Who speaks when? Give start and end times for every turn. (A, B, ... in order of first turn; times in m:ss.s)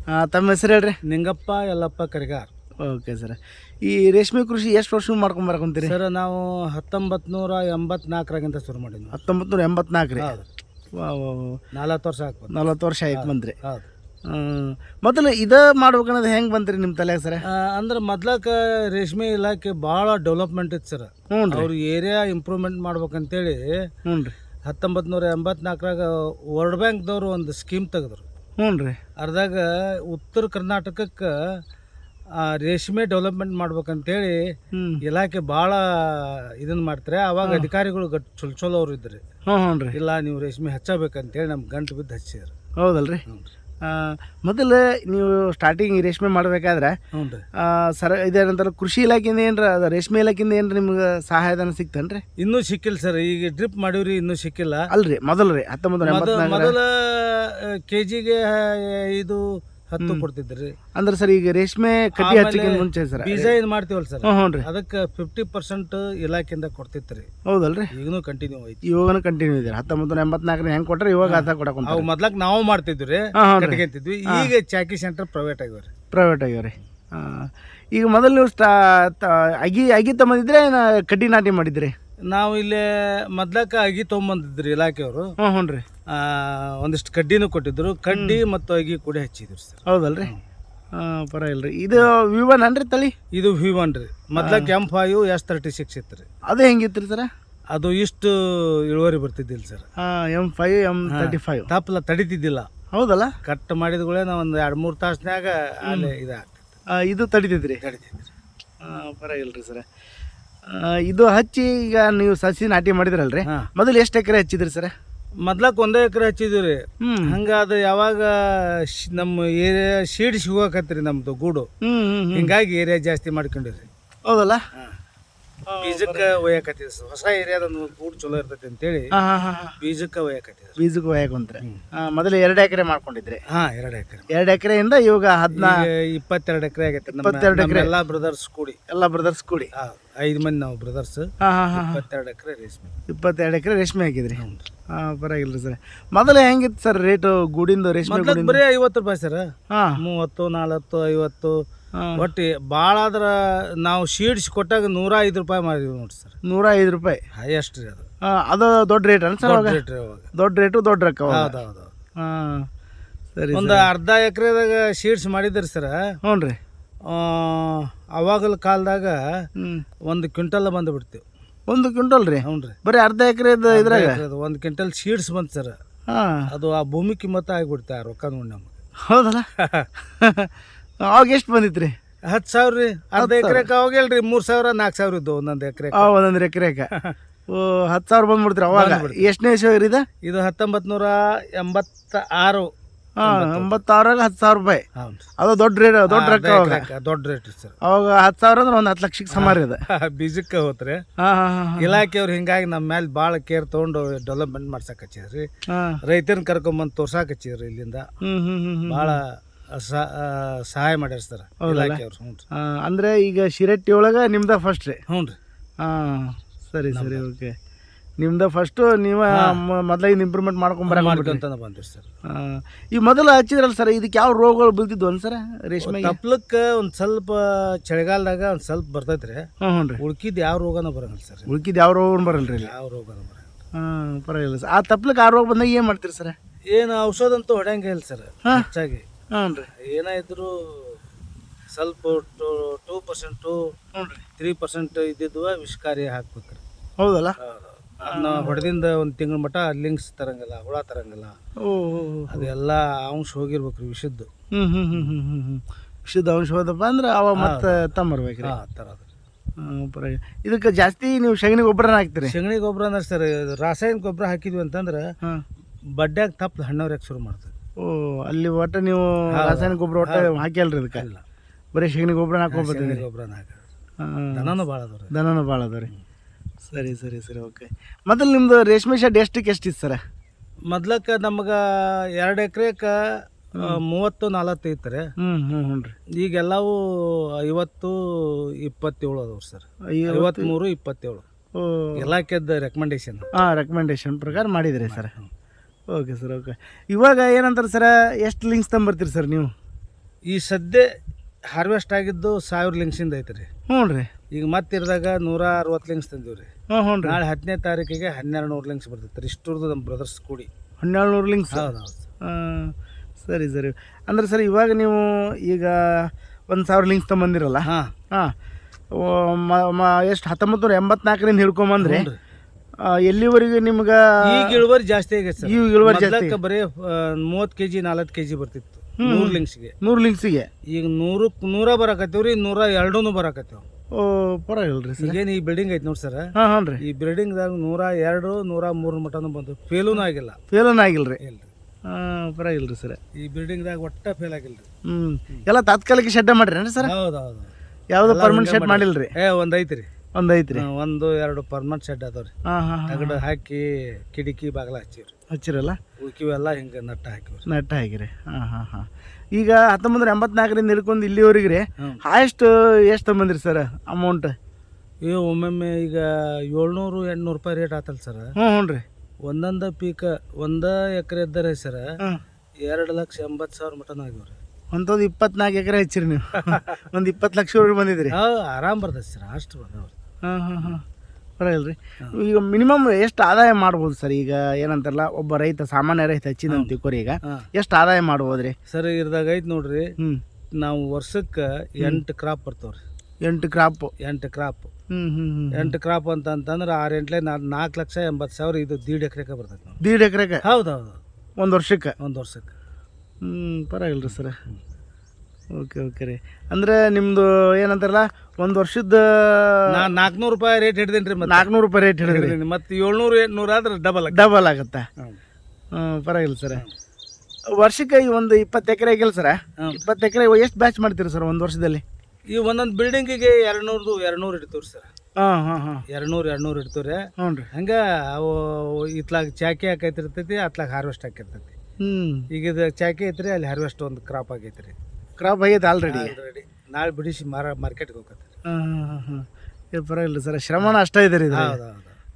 0:00.2-0:01.0 A
0:01.1-0:02.5 B
0:02.8-0:06.0 A
0:05.8-0:09.2 B
0:09.1-0:10.3 A
0:10.2-0:10.5 B
0:10.9-0:11.6 A
0:11.7-0:13.9 B
0:12.5-0:13.5 A
0:14.3-0:17.4 A
0:17.5-0:23.7 B
0:21.3-0:21.7 A
0:24.0-0:24.3 A
0:24.6-0:28.2 B
0:28.6-0:29.0 A
0:29.2-0:31.3 B
0:32.4-0:39.2 B
0:34.7-0:35.0 A
0:37.4-0:37.7 A
0:39.5-0:40.0 A
0:39.9-0:42.5 B
0:42.8-0:43.2 A
0:43.2-0:43.5 B
0:43.8-0:46.9 A
0:47.1-0:47.4 B
0:47.6-0:52.2 A
0:52.4-0:54.9 B
0:54.9-0:56.8 A
0:56.0-1:00.7 B
1:00.0-1:00.2 A
1:00.9-1:03.6 A
1:02.2-1:07.3 B
1:04.2-1:04.6 A
1:07.4-1:07.9 A
1:07.9-1:08.8 B
1:08.9-1:12.1 A
1:11.2-1:15.9 B
1:13.4-1:14.5 A
1:16.1-1:21.9 A
1:22.3-1:25.2 B
1:25.4-1:25.8 A
1:26.1-1:30.4 B
1:28.1-1:28.4 A
1:29.9-1:30.3 A
1:31.0-1:33.1 A
1:33.3-1:36.3 B
1:34.4-1:34.7 A
1:36.5-1:37.3 A
1:37.7-1:39.8 B
1:40.0-1:41.7 A
1:41.1-1:42.7 B
1:42.9-1:43.3 A
1:43.4-1:46.7 B
1:45.9-1:46.1 A
1:47.0-1:47.8 A
1:47.8-1:48.3 B
1:48.8-1:49.8 A
1:50.7-1:54.9 A
1:55.4-2:01.7 B
1:57.0-1:57.4 A
2:01.8-2:02.5 A
2:02.3-2:03.9 B
2:04.2-2:04.6 A
2:05.7-2:06.3 A
2:05.8-2:09.1 B
2:09.2-2:09.7 A
2:09.8-2:10.8 B
2:10.8-2:13.4 A
2:13.5-2:14.3 B
2:14.3-2:15.8 A
2:15.5-2:18.8 B
2:17.1-2:17.9 A
2:18.9-2:19.7 A
2:19.7-2:22.9 B
2:21.4-2:22.0 A
2:23.1-2:24.4 A
2:24.3-2:24.7 B
2:24.9-2:28.6 A
2:28.0-2:29.4 B
2:29.7-2:30.0 A
2:30.0-2:31.6 B
2:32.0-2:32.2 A
2:32.2-2:36.3 B
2:36.4-2:37.2 A
2:37.3-2:38.0 B
2:38.2-2:39.8 A
2:39.4-2:40.3 B
2:40.3-2:41.6 A
2:41.3-2:41.9 B
2:42.2-2:42.7 A
2:43.3-2:43.9 A
2:43.5-2:46.0 B
2:46.2-2:46.6 A
2:47.1-2:49.2 B
2:49.6-2:49.8 A
2:50.1-2:51.2 B
2:51.7-2:54.2 A
2:52.4-2:52.8 B
2:53.7-2:55.8 B
2:56.1-2:56.4 A
2:56.5-2:58.7 B
2:59.1-2:59.5 A
2:59.6-2:59.9 B
3:00.2-3:00.5 A
3:01.0-3:02.0 A
3:02.2-3:06.1 B
3:03.2-3:03.7 A
3:05.9-3:06.9 A
3:07.5-3:10.0 A
3:08.7-3:09.3 B
3:10.2-3:12.7 B
3:13.2-3:14.8 A
3:13.2-3:13.8 B
3:15.0-3:15.2 B
3:15.4-3:16.9 A
3:16.1-3:17.8 B
3:17.8-3:19.8 A
3:19.3-3:21.0 B
3:21.2-3:22.0 A
3:21.8-3:25.5 B
3:25.7-3:26.0 A
3:26.0-3:28.0 B
3:28.2-3:29.2 A
3:28.9-3:32.4 B
3:31.6-3:32.0 A
3:32.5-3:35.0 A
3:35.1-3:35.4 B
3:35.8-3:37.5 A
3:36.9-3:37.2 B
3:38.2-3:41.4 A
3:40.9-3:42.1 B
3:42.3-3:46.2 A
3:45.8-3:49.4 B
3:49.6-3:50.0 A
3:50.0-3:51.5 B
3:51.5-3:52.7 A
3:52.4-3:53.5 B
3:53.8-3:56.3 A
3:56.7-3:59.0 B
3:59.3-3:59.7 A
3:59.8-4:01.0 B
4:01.7-4:03.6 B
4:03.9-4:04.2 A
4:04.4-4:06.6 B
4:07.0-4:07.3 A
4:07.4-4:11.4 B
4:08.0-4:08.6 A
4:11.6-4:12.5 A
4:12.3-4:14.3 B
4:14.5-4:18.5 A
4:17.4-4:17.9 B
4:18.4-4:19.0 B
4:19.6-4:22.3 A
4:22.2-4:25.0 B
4:26.0-4:27.5 B
4:27.8-4:31.0 A
4:29.4-4:30.4 B
4:31.0-4:31.2 B
4:31.7-4:33.0 A
4:32.5-4:33.6 B
4:34.0-4:34.5 A
4:34.3-4:35.1 B
4:35.1-4:35.9 A
4:36.7-4:40.0 A
4:40.7-4:43.0 B
4:43.6-4:45.1 B
4:45.2-4:45.9 A
4:46.2-4:51.2 B
4:49.9-4:50.5 A
4:51.5-4:52.1 A
4:52.0-4:53.2 B
4:53.4-4:55.1 A
4:54.9-4:55.3 B
4:55.9-4:59.5 A
5:00.2-5:00.8 B
5:01.5-5:03.5 B
5:03.7-5:04.1 A
5:04.3-5:06.5 B
5:06.7-5:07.2 A
5:07.0-5:10.5 B
5:10.8-5:11.7 A
5:11.5-5:12.0 B
5:12.2-5:18.3 A
5:17.6-5:17.9 B
5:19.0-5:22.1 A
5:21.8-5:22.2 B
5:22.8-5:24.6 A
5:24.3-5:29.7 B
5:25.4-5:26.4 A
5:29.0-5:30.5 A
5:30.7-5:33.6 B
5:34.0-5:35.2 A
5:35.0-5:36.3 B
5:36.4-5:36.8 A
5:36.8-5:40.4 B
5:40.5-5:41.2 A
5:41.2-5:41.5 B
5:41.9-5:43.0 A
5:43.2-5:44.7 B
5:44.9-5:46.9 A
5:46.8-5:47.5 B
5:47.9-5:49.1 A
5:48.0-5:49.9 B
5:50.2-5:50.6 A
5:50.5-5:52.3 B
5:52.5-5:53.2 A
5:52.9-5:55.1 B
5:55.3-5:55.8 A
5:56.0-5:57.4 B
5:57.5-6:04.3 A
6:05.0-6:08.3 B
6:08.4-6:08.8 A
6:09.2-6:11.8 B
6:12.6-6:14.4 B
6:14.7-6:18.1 A
6:16.4-6:16.7 B
6:18.1-6:19.9 B
6:20.2-6:20.8 A
6:21.4-6:28.5 A
6:26.5-6:26.7 B
6:28.7-6:29.9 B
6:30.6-6:32.8 B
6:33.2-6:33.9 A
6:34.0-6:34.7 B
6:34.9-6:35.8 A
6:35.5-6:39.8 B
6:39.8-6:40.4 A
6:40.4-6:41.0 B
6:41.4-6:41.9 A
6:42.0-6:42.5 B
6:43.2-6:44.4 A
6:44.0-6:44.6 B
6:45.5-6:49.6 A
6:49.7-6:51.5 B
6:51.3-6:52.4 A
6:52.0-6:54.3 B
6:54.1-6:54.8 A
6:55.7-6:56.6 A
6:57.6-7:01.8 A
7:02.3-7:04.9 B
7:05.2-7:05.8 A
7:05.9-7:11.5 B
7:07.2-7:07.5 A
7:11.8-7:12.2 A
7:12.3-7:14.7 B
7:15.2-7:16.1 A
7:15.8-7:18.3 B
7:18.5-7:21.6 A
7:21.3-7:22.0 B